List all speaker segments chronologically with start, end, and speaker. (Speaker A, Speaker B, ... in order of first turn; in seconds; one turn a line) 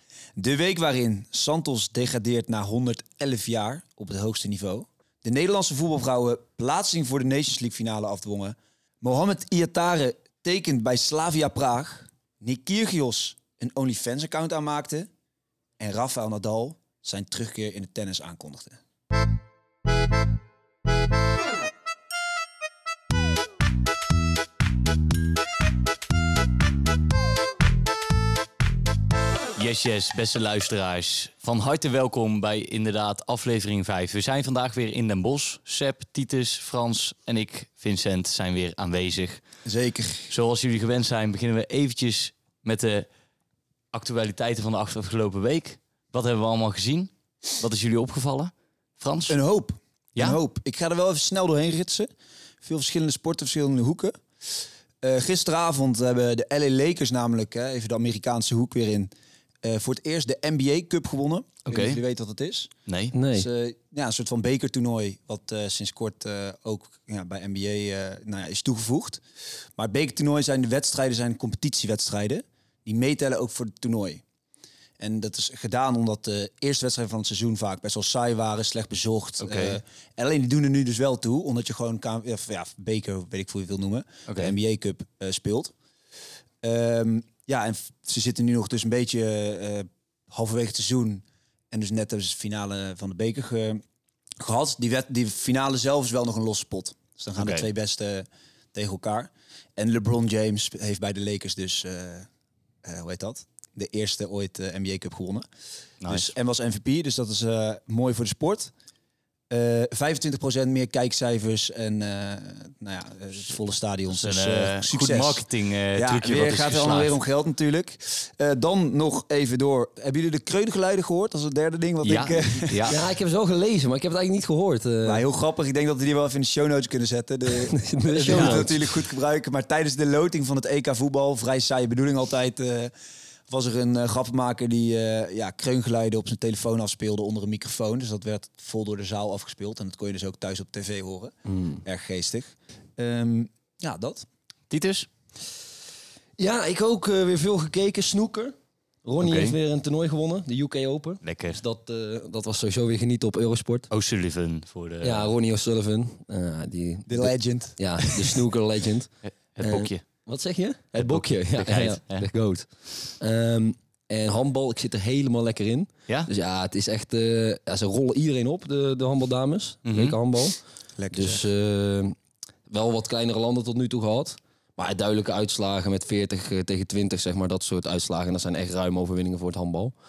Speaker A: 0.4-15.1
Speaker A: 15.8-18.8
Speaker B: 29.6-39.4
Speaker A: 39.6-40.3
Speaker B: 40.3-43.1
Speaker B: 43.9-49.4
Speaker A: 49.3-52.1
Speaker A: 52.6-54.2
Speaker A: 55.0-59.1
Speaker A: 59.6-62.7
Speaker B: 61.7-62.0
Speaker B: 62.9-63.1
Speaker C: 63.1-63.5
Speaker A: 63.3-69.2
Speaker A: 69.8-74.2
Speaker A: 75.0-85.7
Speaker B: 79.4-79.8
Speaker B: 84.3-84.5
Speaker A: 86.6-93.8
Speaker A: 94.4-102.3
Speaker B: 97.4-97.7
Speaker A: 102.8-105.5
Speaker B: 106.0-106.3
Speaker A: 106.1-108.7
Speaker A: 109.5-122.9
Speaker B: 114.1-117.2
Speaker B: 122.0-123.0
Speaker C: 122.9-125.2
Speaker A: 125.0-132.9
Speaker C: 127.7-129.1
Speaker B: 128.3-128.6
Speaker A: 133.5-144.3
Speaker C: 141.5-141.8
Speaker B: 144.7-145.1
Speaker C: 146.4-153.9
Speaker B: 149.2-149.6
Speaker B: 151.2-151.6
Speaker B: 153.9-155.3
Speaker C: 155.0-170.6
Speaker A: 157.1-157.8
Speaker B: 159.2-160.0
Speaker B: 161.0-162.3
Speaker B: 169.9-170.2
Speaker A: 171.0-171.4
Speaker C: 171.1-172.2
Speaker C: 172.7-179.9